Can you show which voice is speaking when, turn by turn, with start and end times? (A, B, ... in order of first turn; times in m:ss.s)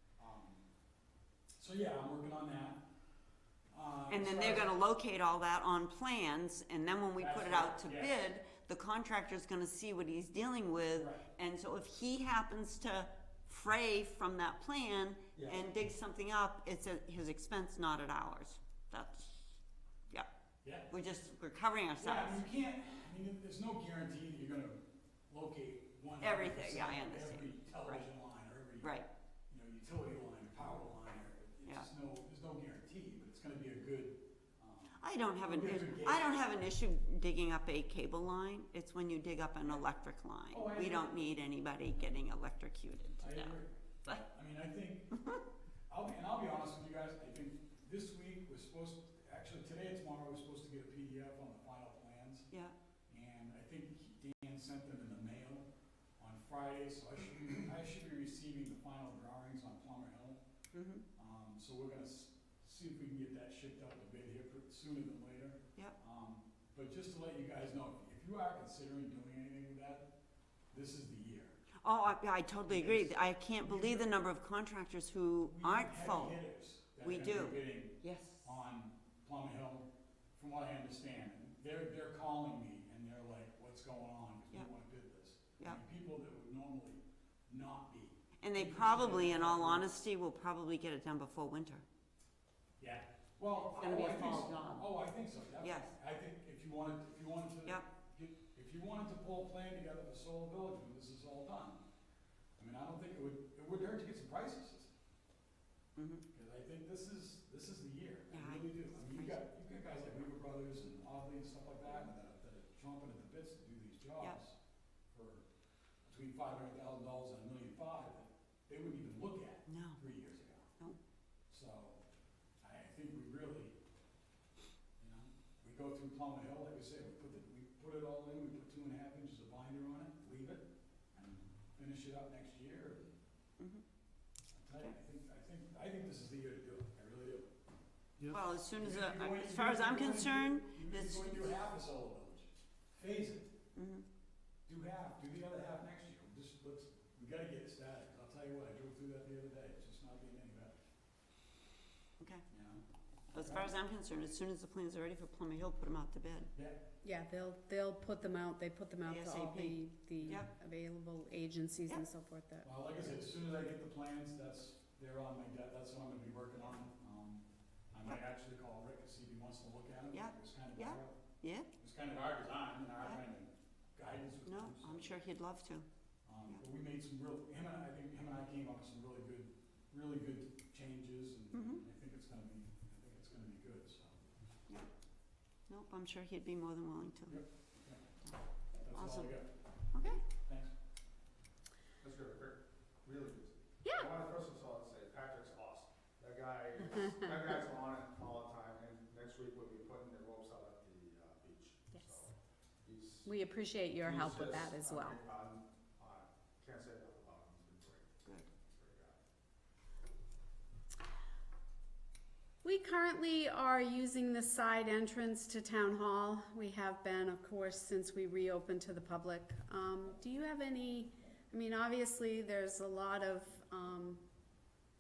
0:00.2-0:00.6 A
0:01.6-0:02.8 A
0:03.7-0:04.8 A
0:04.1-0:19.4 B
0:07.2-0:08.3 A
0:10.9-0:11.2 A
0:15.3-0:15.6 C
0:20.6-0:20.9 A
0:20.9-0:22.4 B
0:22.0-0:36.4 A
0:26.2-0:28.1 B
0:28.8-0:29.1 B
0:35.0-0:44.2 B
0:40.5-0:41.2 A
0:43.2-0:45.2 A
0:45.9-0:52.5 A
0:53.1-0:55.7 A
0:56.2-1:00.4 A
1:00.7-1:01.0 B
1:01.2-1:10.1 A
1:10.7-1:11.6 A
1:11.8-1:16.4 B
1:12.7-1:14.2 A
1:15.4-1:29.9 A
1:17.0-1:18.5 B
1:28.4-1:31.8 B
1:32.8-1:41.8 A
1:33.6-1:34.9 B
1:35.6-1:35.9 B
1:42.6-1:44.9 A
1:46.0-1:46.2 B
1:46.3-1:54.6 A
1:48.3-1:49.4 B
1:55.1-1:55.4 A
1:56.0-2:00.7 A
1:59.7-2:00.0 B
2:01.5-2:02.0 A
2:02.6-2:03.8 A
2:05.0-2:13.2 A
2:13.6-2:13.8 B
2:14.5-2:17.5 A
2:18.2-2:23.5 A
2:18.3-2:21.5 B
2:23.7-2:24.0 B
2:24.7-2:30.7 A
2:32.2-2:32.4 B
2:32.5-2:32.8 A
2:33.3-2:36.5 B
2:33.3-2:33.7 A
2:36.5-2:36.8 A
2:37.0-2:42.7 D
2:39.0-2:40.5 B
2:42.6-2:51.2 A
2:50.1-2:51.7 B
2:51.8-2:55.2 A
2:54.4-2:55.9 B
2:56.2-3:04.2 A
3:01.5-3:01.8 B
3:05.7-3:07.4 B
3:07.3-3:08.0 A
3:08.8-3:09.5 A
3:08.9-3:09.4 B
3:09.9-3:10.2 B
3:10.3-3:10.7 A
3:12.0-3:23.3 C
3:13.8-3:14.1 D
3:23.2-3:25.2 D
3:24.0-3:28.2 C
3:28.7-3:29.2 C
3:32.6-3:44.2 D